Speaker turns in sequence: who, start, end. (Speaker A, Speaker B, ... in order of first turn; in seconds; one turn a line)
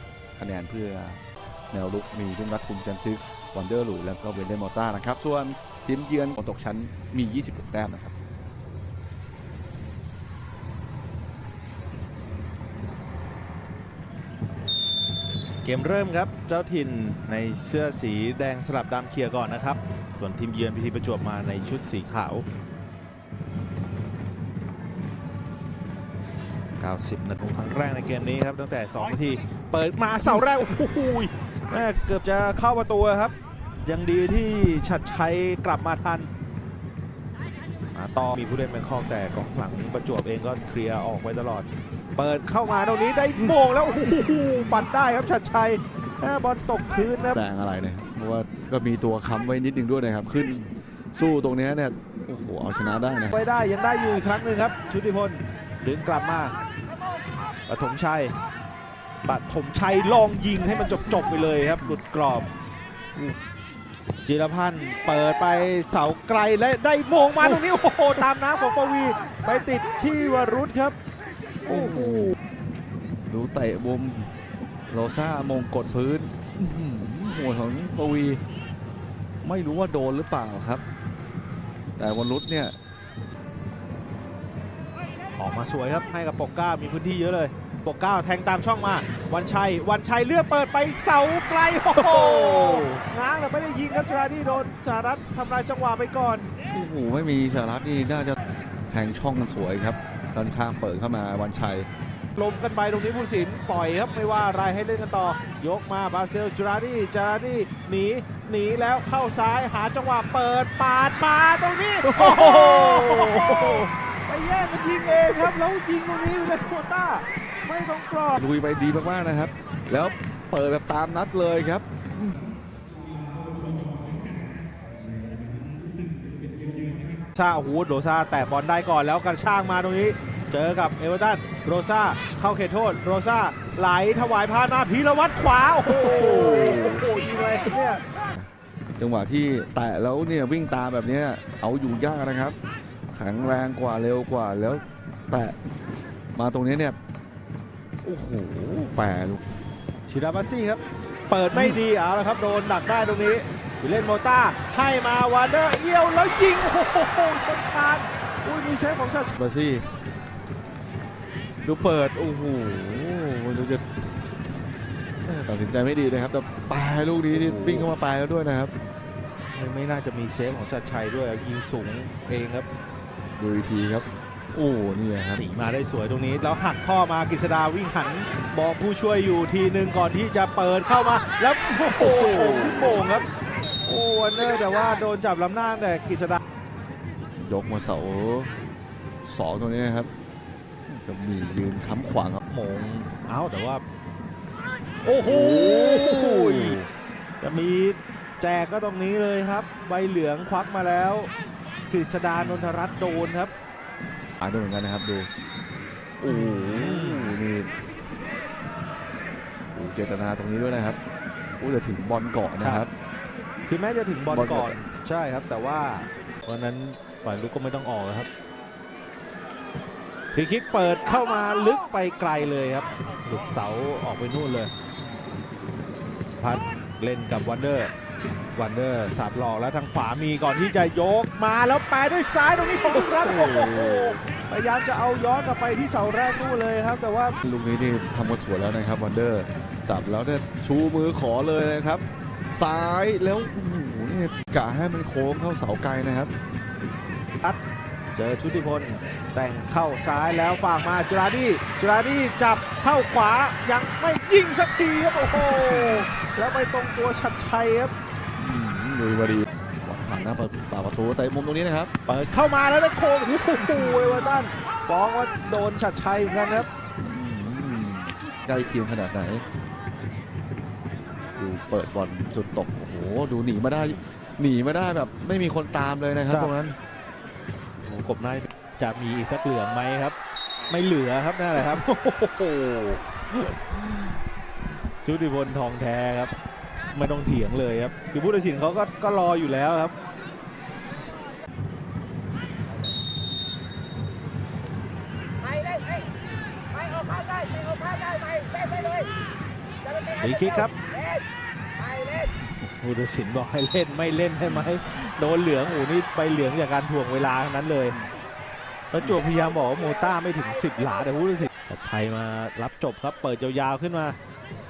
Speaker A: 0.3-8.1
Speaker B: 15.6-22.4
Speaker B: 26.8-33.3
Speaker B: 33.8-36.3
Speaker B: 37.9-47.4
Speaker A: 47.3-53.4
Speaker B: 53.3-56.5
Speaker B: 57.7-58.3
Speaker B: 59.2-62.5
Speaker B: 64.2-70.9
Speaker A: 71.7-72.3
Speaker B: 71.7-72.3
Speaker A: 73.3-74.3
Speaker A: 74.9-78.4
Speaker A: 79.4-80.8
Speaker A: 82.0-82.7
Speaker B: 85.4-96.5
Speaker A: 92.0-92.9
Speaker A: 96.7-98.4
Speaker A: 98.9-101.9
Speaker B: 102.3-118.4
Speaker A: 112.0-113.9
Speaker A: 118.4-122.4
Speaker B: 127.2-138.1
Speaker A: 135.8-137.1
Speaker A: 138.3-142.6
Speaker A: 143.1-145.5
Speaker A: 146.3-147.0
Speaker A: 148.0-149.5
Speaker B: 150.1-159.3
Speaker A: 151.5-151.8
Speaker A: 159.3-159.8
Speaker A: 161.6-163.8
Speaker A: 165.2-168.7
Speaker B: 167.3-167.9
Speaker B: 169.5-172.7
Speaker A: 173.4-175.4
Speaker B: 175.4-183.2
Speaker A: 182.0-182.9
Speaker B: 183.8-186.4
Speaker A: 187.3-188.5
Speaker A: 189.2-190.1
Speaker A: 190.9-192.4
Speaker B: 192.5-193.8
Speaker B: 195.0-196.8
Speaker A: 195.2-196.8
Speaker B: 197.4-201.3
Speaker B: 201.9-203.5
Speaker A: 204.4-205.3
Speaker A: 206.2-207.7
Speaker B: 206.2-207.3
Speaker A: 209.7-211.0
Speaker A: 211.6-212.9
Speaker B: 212.6-212.9
Speaker B: 213.7-218.3
Speaker A: 214.3-214.8
Speaker B: 220.3-224.7
Speaker B: 226.4-227.9
Speaker B: 228.5-237.4
Speaker A: 233.0-234.2
Speaker A: 237.4-246.3
Speaker B: 248.1-257.9
Speaker A: 255.3-256.1
Speaker A: 258.4-261.9
Speaker B: 262.1-266.7
Speaker A: 263.7-264.3
Speaker A: 267.0-269.4
Speaker A: 271.3-276.8
Speaker B: 276.3-276.5
Speaker B: 277.8-280.1
Speaker B: 280.7-284.1
Speaker B: 285.0-286.3
Speaker B: 286.9-289.9
Speaker B: 300.1-300.7
Speaker B: 302.6-307.9
Speaker A: 304.4-304.7
Speaker B: 308.9-314.2